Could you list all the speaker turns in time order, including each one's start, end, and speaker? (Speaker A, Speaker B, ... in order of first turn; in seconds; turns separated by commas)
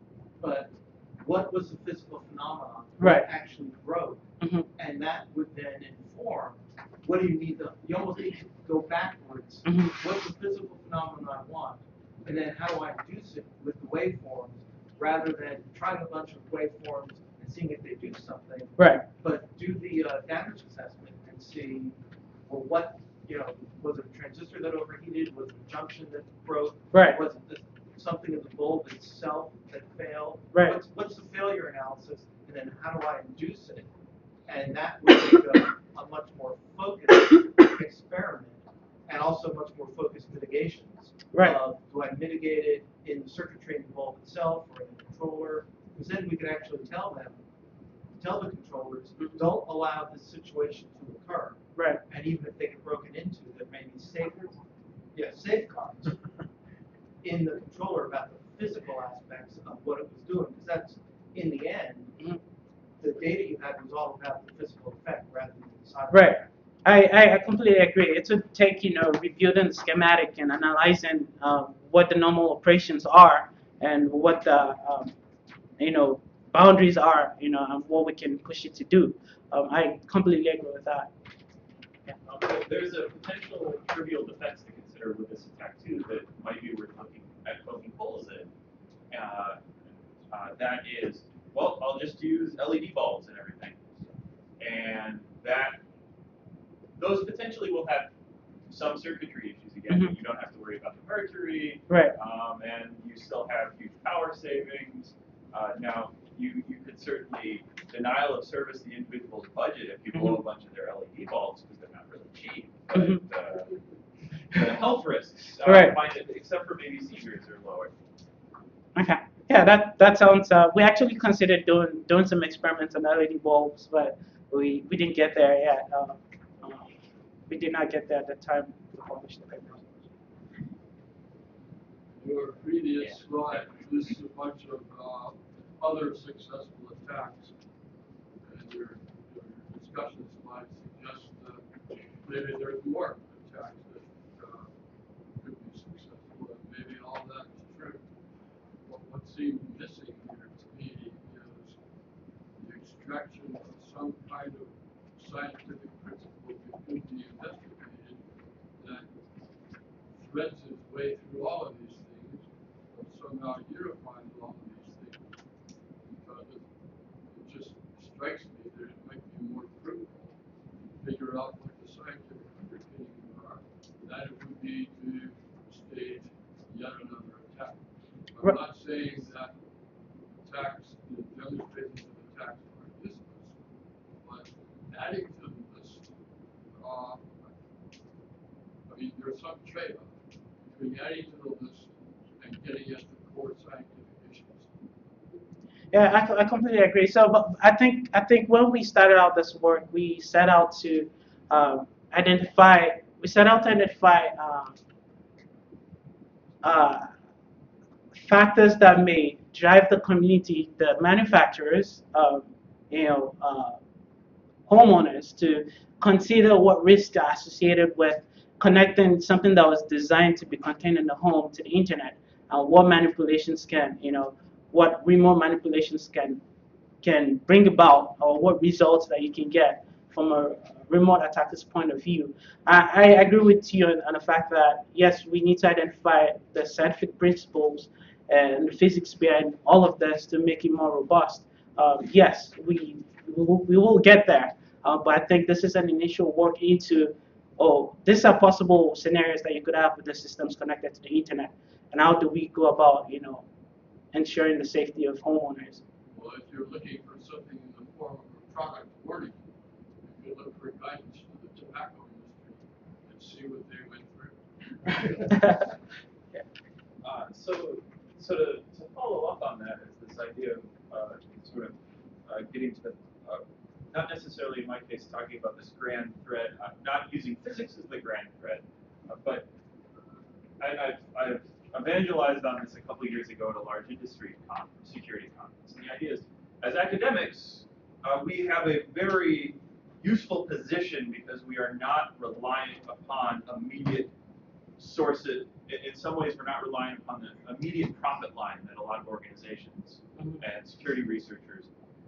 Speaker A: 0.4-33.9, Speaker B: 3.0-3.3, Speaker B: 4.4-4.7, Speaker B: 9.6-9.9, Speaker B: 18.8-19.0, Speaker B: 26.9-27.2, Speaker A: 34.5-47.4, Speaker B: 41.3-41.6, Speaker A: 48.2-54.6, Speaker B: 51.8-52.0, Speaker A: 55.1-56.2, Speaker A: 57.2-62.2, Speaker A: 63.0-66.5, Speaker B: 66.1-75.1, Speaker B: 75.8-81.1, Speaker C: 82.2-88.5, Speaker C: 89.1-89.6, Speaker C: 90.3-93.8, Speaker C: 94.6-95.8, Speaker C: 97.0-98.1, Speaker C: 98.7-113.8, Speaker B: 110.1-110.4, Speaker B: 112.9-113.2, Speaker C: 114.5-117.9, Speaker B: 115.6-116.0, Speaker B: 119.0-126.9, Speaker B: 127.5-130.0, Speaker D: 132.1-137.5, Speaker D: 138.4-144.7, Speaker D: 145.3-148.0, Speaker D: 148.8-151.8, Speaker D: 152.6-158.2, Speaker D: 158.8-159.1, Speaker D: 160.1-165.2, Speaker D: 166.0-166.7, Speaker D: 167.3-170.3, Speaker D: 171.0-177.8, Speaker D: 178.3-179.5, Speaker D: 180.4-183.5, Speaker D: 184.2-186.1, Speaker D: 186.7-187.5, Speaker D: 188.8-194.7, Speaker B: 195.9-204.8, Speaker B: 206.6-207.1, Speaker B: 208.1-213.8, Speaker B: 214.7-226.4, Speaker B: 227.0-253.4, Speaker B: 254.1-255.8, Speaker D: 256.1-259.4, Speaker D: 260.0-265.4, Speaker B: 265.3-265.6, Speaker C: 267.0-271.7, Speaker C: 272.2-279.5, Speaker C: 280.6-294.1, Speaker C: 294.8-301.7